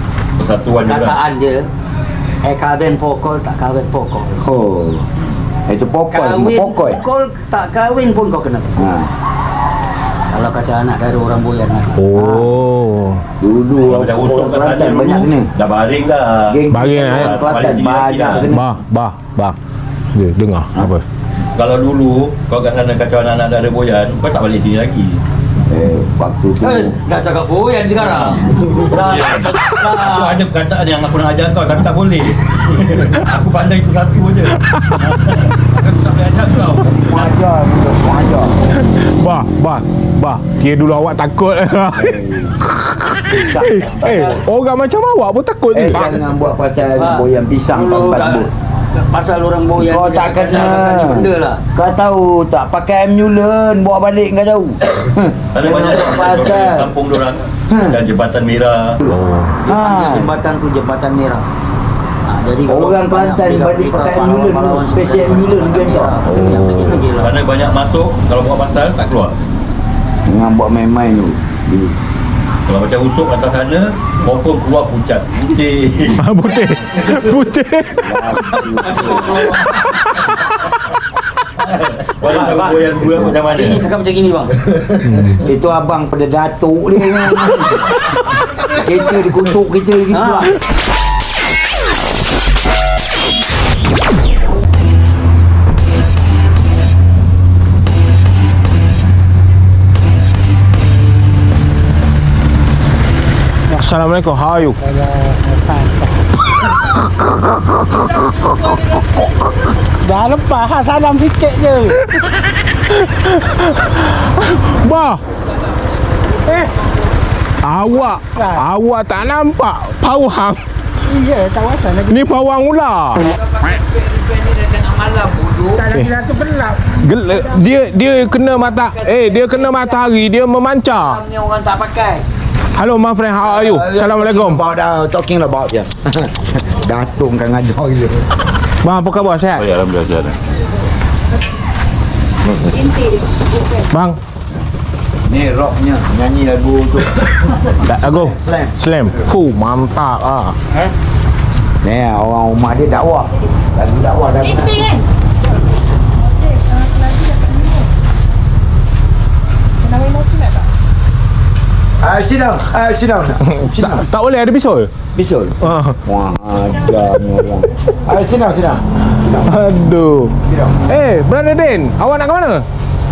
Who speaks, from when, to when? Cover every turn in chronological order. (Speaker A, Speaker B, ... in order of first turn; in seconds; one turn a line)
Speaker A: 0.4-1.2
Speaker B: 0.8-1.7
Speaker B: 2.4-4.5
Speaker C: 4.4-5.1
Speaker C: 5.7-7.0
Speaker B: 6.1-8.9
Speaker C: 8.8-9.1
Speaker B: 10.3-12.0
Speaker D: 11.9-13.2
Speaker C: 12.2-12.6
Speaker C: 13.4-15.5
Speaker A: 13.8-18.5
Speaker C: 16.5-18.8
Speaker D: 16.7-17.4
Speaker D: 18.4-19.6
Speaker D: 20.1-21.0
Speaker A: 21.6-25.2
Speaker C: 25.7-27.0
Speaker B: 26.6-30.4
Speaker A: 28.2-37.4
Speaker D: 34.6-35.1
Speaker C: 36.8-38.5
Speaker D: 38.8-42.2
Speaker C: 42.0-42.6
Speaker D: 42.7-46.2
Speaker C: 43.3-44.4
Speaker C: 45.7-48.5
Speaker B: 47.0-51.6
Speaker C: 49.8-56.9
Speaker A: 55.5-59.0
Speaker C: 57.7-58.0
Speaker D: 59.0-59.5
Speaker B: 59.7-61.5
Speaker C: 59.7-60.3
Speaker B: 62.2-67.3
Speaker C: 62.7-66.2
Speaker D: 66.3-67.0
Speaker A: 66.6-69.4
Speaker C: 70.3-72.0
Speaker A: 72.7-76.2
Speaker D: 76.2-78.3
Speaker A: 77.1-77.3
Speaker C: 78.0-79.6
Speaker B: 78.5-79.8
Speaker A: 79.0-80.4
Speaker D: 80.2-80.7
Speaker A: 81.6-83.8
Speaker B: 82.2-84.5
Speaker D: 85.0-85.4
Speaker C: 85.4-87.9
Speaker C: 88.6-90.5
Speaker B: 90.1-90.5
Speaker D: 103.7-104.8
Speaker E: 104.9-106.1
Speaker E: 110.0-112.0
Speaker D: 111.8-115.2
Speaker D: 117.6-120.6
Speaker E: 121.0-122.2
Speaker D: 122.1-123.3
Speaker C: 123.3-125.9
Speaker D: 125.9-126.3
Speaker E: 125.9-126.8
Speaker D: 126.8-131.2
Speaker C: 128.8-130.0
Speaker C: 131.0-132.2
Speaker D: 132.7-134.6
Speaker C: 133.4-138.2
Speaker D: 138.8-139.7
Speaker A: 139.6-140.4
Speaker D: 142.5-142.8
Speaker D: 143.9-144.2
Speaker C: 145.3-147.3
Speaker D: 147.8-150.6
Speaker C: 148.1-148.7
Speaker C: 151.8-155.0
Speaker E: 156.6-157.8
Speaker E: 159.9-160.6
Speaker C: 162.0-164.0
Speaker D: 163.4-164.9
Speaker C: 165.2-168.8
Speaker D: 165.6-166.0
Speaker D: 169.3-170.3
Speaker C: 170.5-170.7
Speaker D: 170.9-172.7